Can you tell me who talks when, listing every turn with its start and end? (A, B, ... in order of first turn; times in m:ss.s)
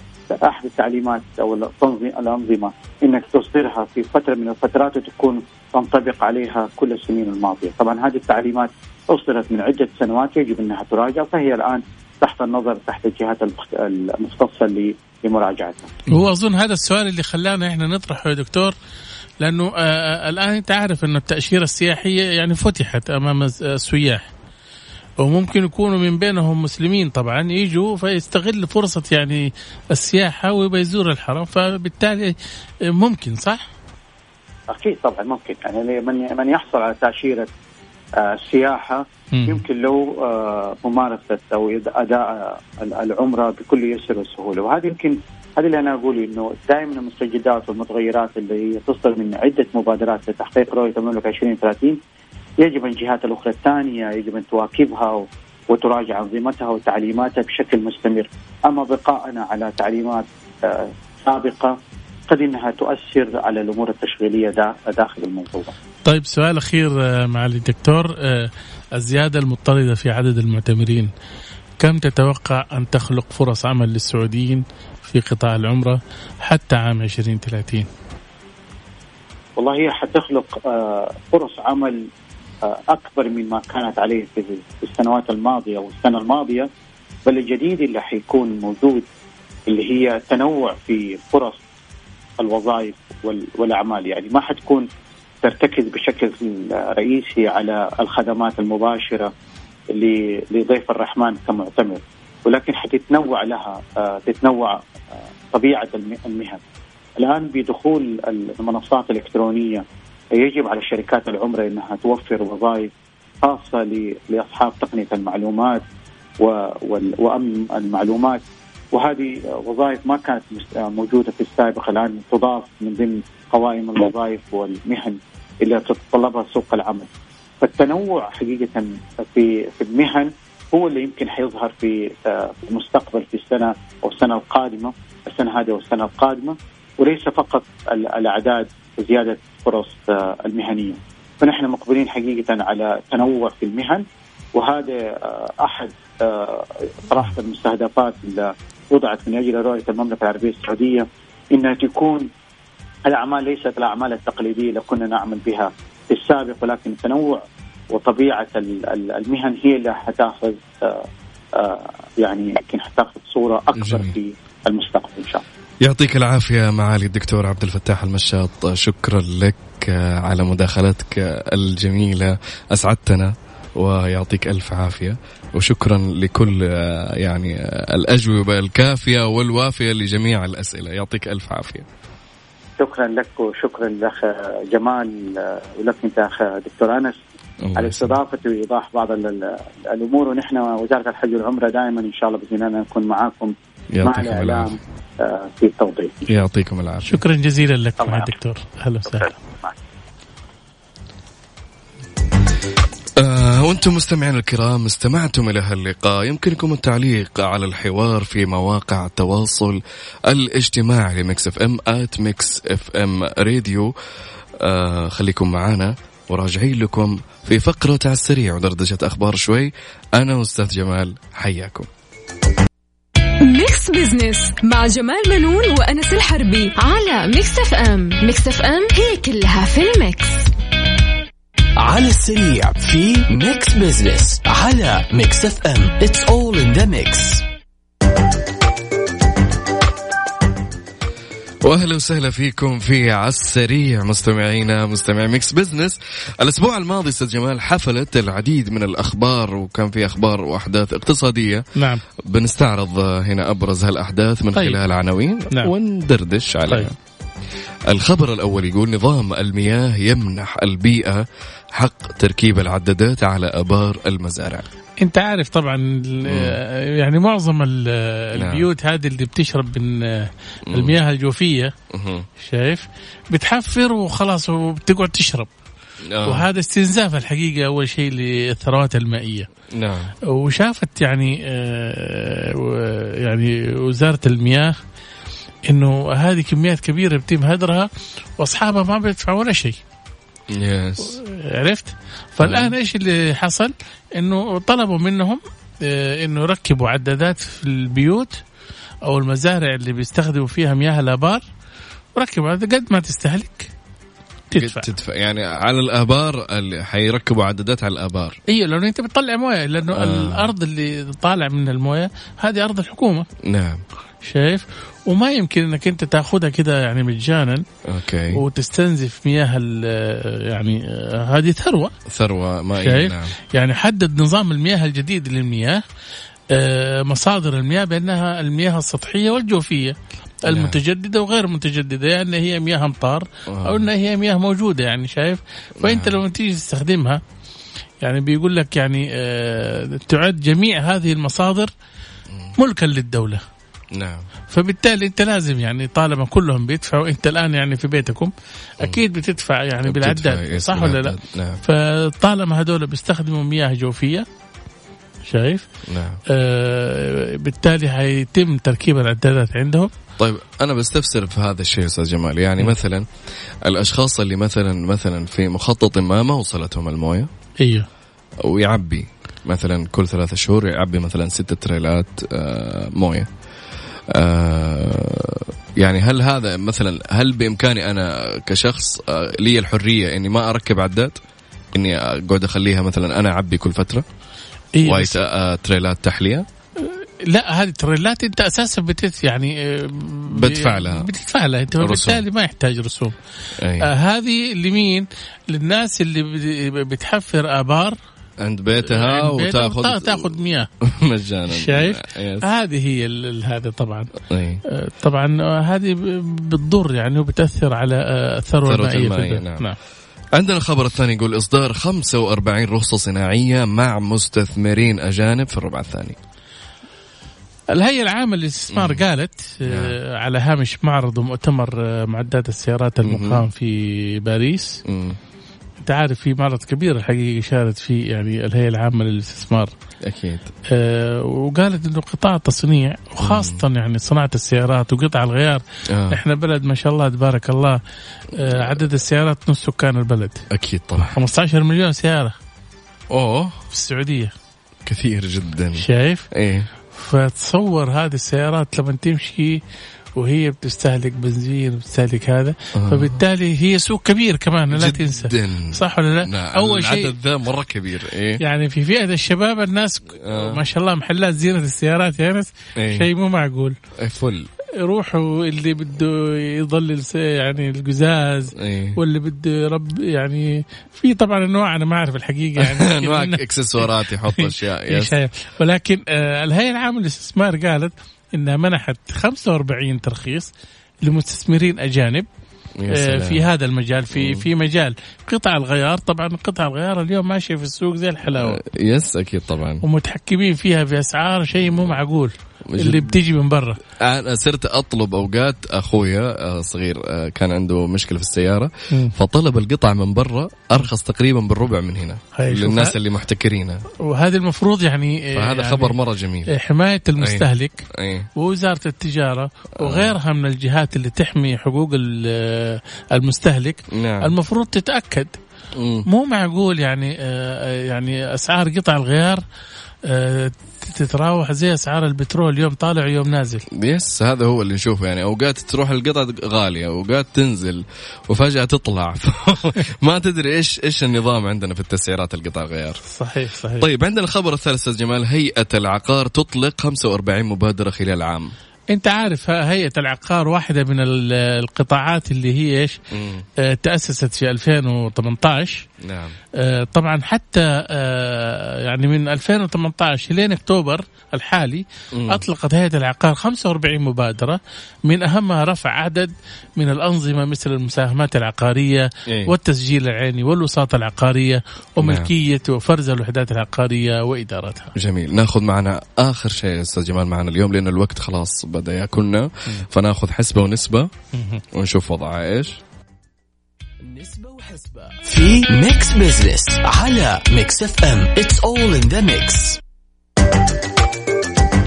0:00.4-0:15.9 A
0:16.1-0:18.8 B
0:19.4-0:24.3 B
0:25.2-0:32.4 B
0:32.9-0:33.6 B
0:34.7-0:37.5 A
0:38.2-0:52.0 A
0:39.3-0:39.6 B
0:52.6-1:01.8 A
1:02.3-1:05.7 A
1:06.0-1:11.1 B
1:11.8-1:17.9 B
1:19.6-1:22.1 A
1:22.6-1:26.7 A
1:27.2-1:29.1 A
1:29.7-1:31.6 A
1:32.4-1:34.9 A
1:35.4-1:39.3 A
1:39.9-1:44.8 A
1:45.5-1:46.6 A
1:47.2-1:52.9 A
1:53.4-1:55.8 A
1:56.4-2:07.1 A
2:07.6-2:32.3 A
2:33.0-2:45.4 A
2:43.8-2:44.2 C
2:45.8-3:01.9 C
3:02.8-3:07.2 A
3:07.6-3:08.2 C
3:07.8-3:16.2 A
3:13.9-3:14.7 C
3:16.3-3:17.2 C
3:17.0-3:19.3 B
3:18.0-3:18.3 A
3:19.1-3:19.8 A
3:23.2-3:33.9 C
3:34.6-3:41.9 C
3:43.4-3:50.5 D
3:51.8-3:57.4 E
4:01.6-4:11.6 C
4:11.8-4:12.0 B
4:12.2-4:16.9 C
4:17.9-4:24.7 C
4:25.0-4:31.7 B
4:26.3-4:26.6 C
4:28.4-4:28.7 C
4:30.7-4:30.9 C
4:31.9-4:32.3 C
4:32.4-4:35.5 B
4:36.1-4:36.5 C
4:36.2-4:39.5 B
4:39.7-4:40.1 C
4:40.3-4:44.7 B
4:45.7-4:49.8 B
4:50.5-4:51.2 C
4:51.0-4:58.4 B
4:52.4-4:52.7 C
4:59.0-5:01.4 B
5:02.2-5:03.7 B
5:04.5-5:04.9 B
5:04.6-5:08.4 C
5:08.5-5:13.3 B
5:09.9-5:10.5 C
5:13.4-5:13.8 C
5:14.2-5:17.6 B
5:17.9-5:18.4 C
5:18.3-5:21.9 B
5:22.1-5:23.3 C
5:22.8-5:25.8 B
5:26.5-5:37.2 B
5:30.5-5:30.8 C
5:33.5-5:33.8 C
5:35.8-5:36.2 C
5:38.0-5:41.7 B
5:42.6-5:43.4 B
5:43.9-5:44.2 C
5:44.5-5:54.2 B
5:49.8-5:51.6 C
5:55.2-5:55.6 B
5:55.9-5:56.2 C
5:56.3-5:59.9 B
6:00.2-6:03.1 C
6:03.6-6:07.3 C
6:07.6-6:07.9 B
6:08.4-6:13.3 C
6:14.1-6:21.2 C
6:21.7-6:24.0 C
6:24.8-6:25.2 B
6:24.8-6:26.4 C
6:26.8-6:33.1 B
6:30.3-6:31.1 C
6:31.8-6:32.2 C
6:33.6-6:33.9 C
6:33.8-6:38.0 B
6:38.4-6:42.5 C
6:38.8-6:40.7 B
6:41.5-6:44.1 B
6:44.3-6:44.6 C
6:44.7-6:49.8 B
6:48.7-6:49.7 C
6:50.4-6:56.2 C
6:57.7-7:04.8 B
6:58.7-6:59.0 C
6:59.6-7:00.0 C
7:03.1-7:03.4 C
7:04.9-7:05.2 C
7:05.8-7:09.7 B
7:10.0-7:10.5 C
7:10.7-7:17.8 B
7:13.2-7:13.6 C
7:15.9-7:16.2 C
7:18.3-7:20.4 B
7:18.5-7:18.8 C
7:20.5-7:21.1 C
7:21.0-7:22.4 B
7:23.1-7:23.6 C
7:23.7-7:24.3 B
7:24.9-7:26.7 C
7:25.8-7:26.3 B
7:26.9-7:29.6 B
7:30.2-7:37.1 B
7:32.7-7:33.2 C
7:34.7-7:38.4 C
7:38.4-7:43.8 B
7:40.2-7:40.6 C
7:42.8-7:43.1 C
7:44.0-7:44.5 C
7:44.8-7:53.4 B
7:48.6-7:49.0 C
7:52.6-7:55.2 C
7:54.3-8:00.5 B
8:01.0-8:02.3 B
8:02.8-8:03.5 C
8:02.9-8:08.6 B
8:04.1-8:04.5 C
8:08.3-8:09.8 C
8:09.8-8:13.8 B
8:11.6-8:12.0 C
8:12.7-8:13.1 C
8:14.0-8:23.8 C
8:22.4-8:22.9 B
8:24.0-8:26.0 B
8:25.3-8:26.5 C
8:26.5-8:27.8 B
8:27.2-8:28.3 C
8:28.4-8:35.4 B
8:29.8-8:30.2 C
8:33.9-8:34.3 C
8:35.8-8:36.1 C
8:36.1-8:39.4 B
8:40.0-8:43.6 B
8:43.7-8:53.0 C
8:53.1-8:53.9 B
8:53.8-8:58.5 C
8:58.9-9:03.0 B
9:03.1-9:03.4 C
9:03.6-9:05.9 B
9:06.0-9:06.4 C
9:06.6-9:24.9 B
9:12.1-9:12.4 C
9:19.3-9:19.5 C
9:22.0-9:22.3 C
9:25.0-9:31.1 C
9:31.3-9:31.6 B
9:31.7-9:32.8 C
9:34.0-9:39.8 E